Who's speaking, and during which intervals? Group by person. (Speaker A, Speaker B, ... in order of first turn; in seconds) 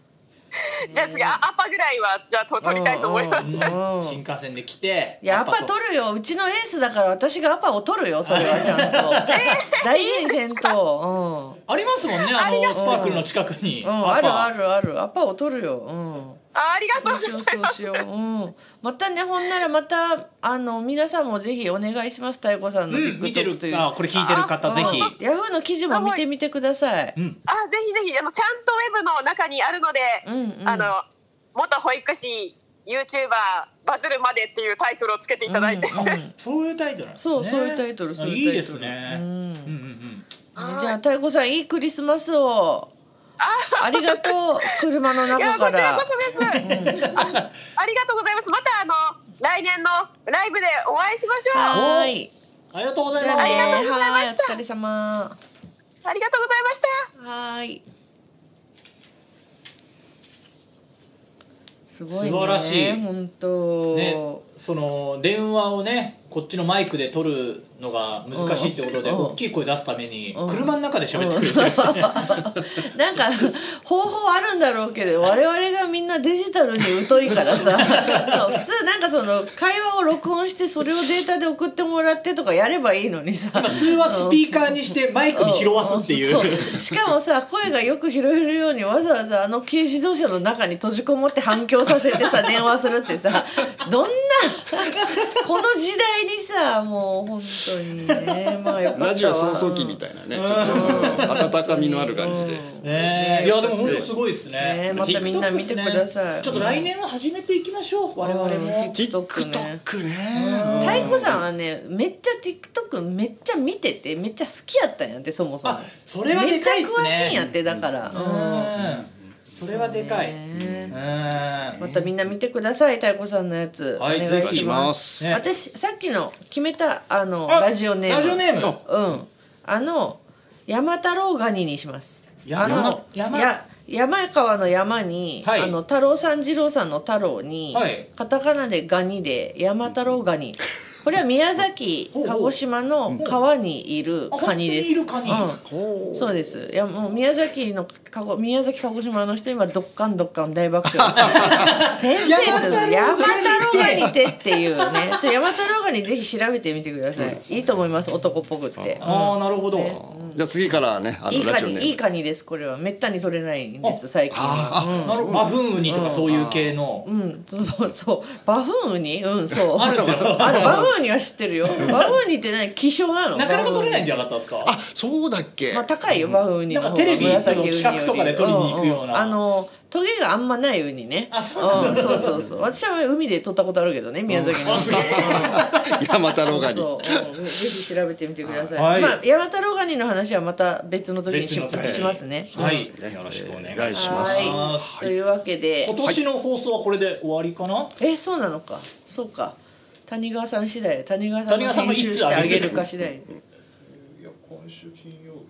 Speaker A: 0.8-1.4, 2.6-4.2, 5.2-11.6, 12.7-13.3, 13.8-16.4, 16.9-23.9, 24.6-27.2, 30.2-30.9, 35.5-36.3, 37.2-39.8, 40.6-42.9, 43.8-46.1, 46.6-47.1, 51.5-52.3, 53.2-55.4, 57.2-57.8, 61.9-64.4, 68.3-69.4, 70.3-84.6, 85.3-100.0, 100.7-106.9, 108.2-109.8, 110.8-118.8, 119.7-120.9, 121.8-160.4, 161.3-165.2, 165.8-166.3, 167.0-174.2, 175.7-185.7, 186.5-192.9, 193.9-195.9, 198.0-203.2
Speaker B: 0.9-3.7, 9.3-10.7, 12.2-13.1, 16.6-18.0, 24.2-25.1, 25.9-26.2, 27.5-36.2, 40.6-41.0, 43.4-46.6, 47.2-51.8, 53.4-54.6, 56.0-57.1
Speaker C: 3.4-5.7, 8.3-9.6, 11.7-14.5, 22.9-25.1, 36.1-40.3, 46.4-47.5, 51.7-52.1, 52.7-53.8, 62.1-63.0, 63.9-72.5, 77.3-78.4, 83.5-86.8, 100.3-101.3, 102.8-108.9, 110.3-111.2, 115.6-117.4, 118.1-120.4, 120.9-121.8, 124.0-125.4, 127.5-128.8, 132.5-133.5, 135.4-135.8, 137.7-138.1, 142.1-142.6, 144.3-145.5, 151.2-154.1, 159.0-160.0, 165.0-167.1, 169.8-170.9, 173.3-174.7, 176.7-179.4, 181.3-182.4, 184.6-185.9, 188.8-189.2, 191.3-195.0, 195.8-198.0, 201.5-202.8
Speaker D: 99.0-102.7, 104.9-105.3, 108.9-111.4, 117.3-118.2, 118.8-119.6, 120.5-122.3, 124.4-125.4, 128.6-129.2, 132.6-133.0, 145.4-146.5, 150.9-153.0, 153.8-154.1, 157.2-157.6, 158.8-159.1, 160.0-162.0, 164.3-165.7, 166.3-166.8, 169.8-170.9, 171.8-172.2, 174.6-176.4, 177.2-177.7, 181.7-182.8, 184.3-187.4, 188.4-188.8, 191.7-195.1, 202.5-203.4, 204.3-205.3